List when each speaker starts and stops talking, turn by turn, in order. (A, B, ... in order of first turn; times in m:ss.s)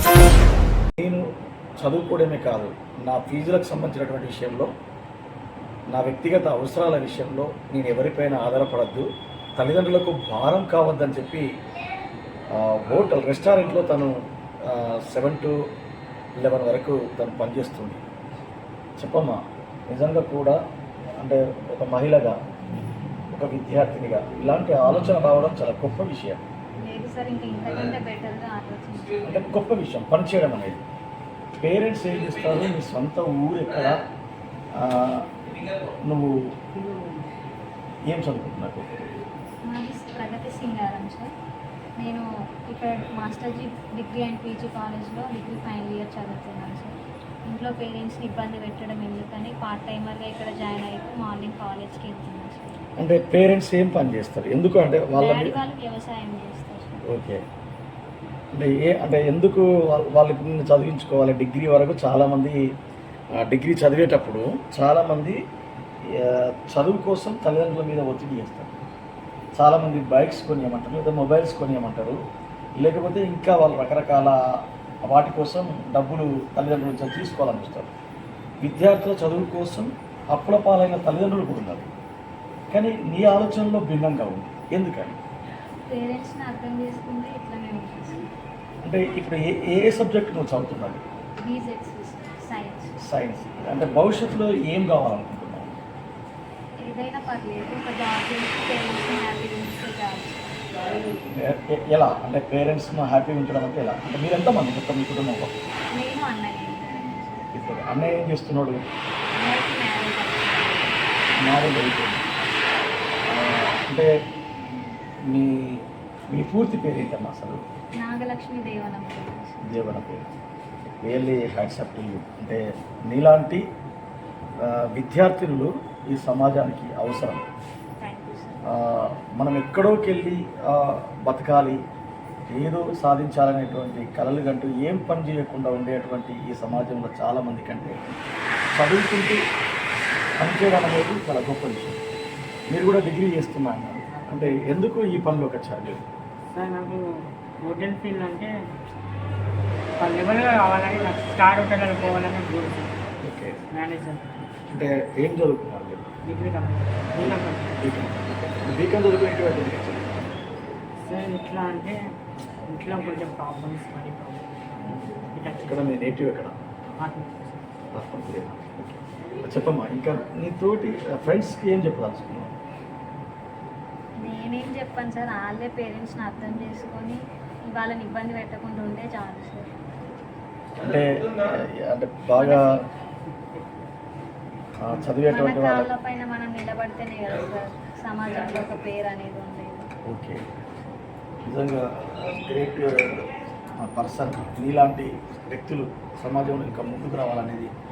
0:01.0-0:01.2 A
0:01.8-0:04.7 A
0:05.9-0:11.4 A
0:12.6-0:15.5 A
0:16.4-0:18.0 A
0:19.0-0:20.6 A
0:21.2-0:22.4 A
0:23.3-0:26.4 A
0:26.8-0:29.4 B
0:29.2-0:30.8 A
0:31.6-0:34.0 A
0:34.8-0:35.2 A
0:38.1-0:39.0 A
0:39.7-0:41.3 B
0:42.0-0:52.8 B
0:53.0-0:55.6 A
0:55.1-0:57.0 B
0:57.1-0:57.4 A
0:58.5-1:02.6 A
1:03.4-1:05.4 A
1:06.2-1:08.8 A
1:09.6-1:12.2 A
1:12.8-1:14.4 A
1:15.0-1:17.9 A
1:18.6-1:21.9 A
1:22.7-1:25.2 A
1:25.9-1:28.3 B
1:28.8-1:31.0 A
1:31.4-1:32.9 B
1:33.1-1:35.8 A
1:36.8-1:40.5 B
1:41.3-1:45.5 A
1:45.9-1:47.4 B
1:47.6-1:48.8 A
1:49.3-1:51.0 B
1:51.4-1:52.3 A
1:53.3-1:54.1 A
1:55.3-1:55.8 A
1:56.3-1:57.6 A
1:58.0-1:59.6 B
1:59.6-2:00.3 A
2:01.0-2:03.6 A
2:04.6-2:07.4 A
2:08.0-2:08.6 B
2:08.7-2:11.8 A
2:12.5-2:18.1 A
2:18.7-2:19.4 A
2:20.4-2:22.0 A
2:22.7-2:26.0 A
2:24.1-2:24.7 C
2:26.5-2:27.1 C
2:27.6-2:28.5 C
2:30.0-2:33.0 C
2:33.2-2:33.6 A
2:33.7-2:34.5 C
2:34.7-2:36.1 A
2:36.3-2:38.1 C
2:37.2-2:40.2 A
2:41.0-2:42.0 C
2:42.7-2:46.0 C
2:45.5-2:46.5 A
2:47.0-2:47.7 C
2:47.9-2:52.6 A
2:54.2-2:59.8 B
3:00.8-3:02.7 A
3:02.4-3:02.8 B
3:04.8-3:05.9 A
3:05.3-3:09.9 B
3:10.1-3:10.4 A
3:11.5-3:13.3 A
3:13.8-3:17.7 A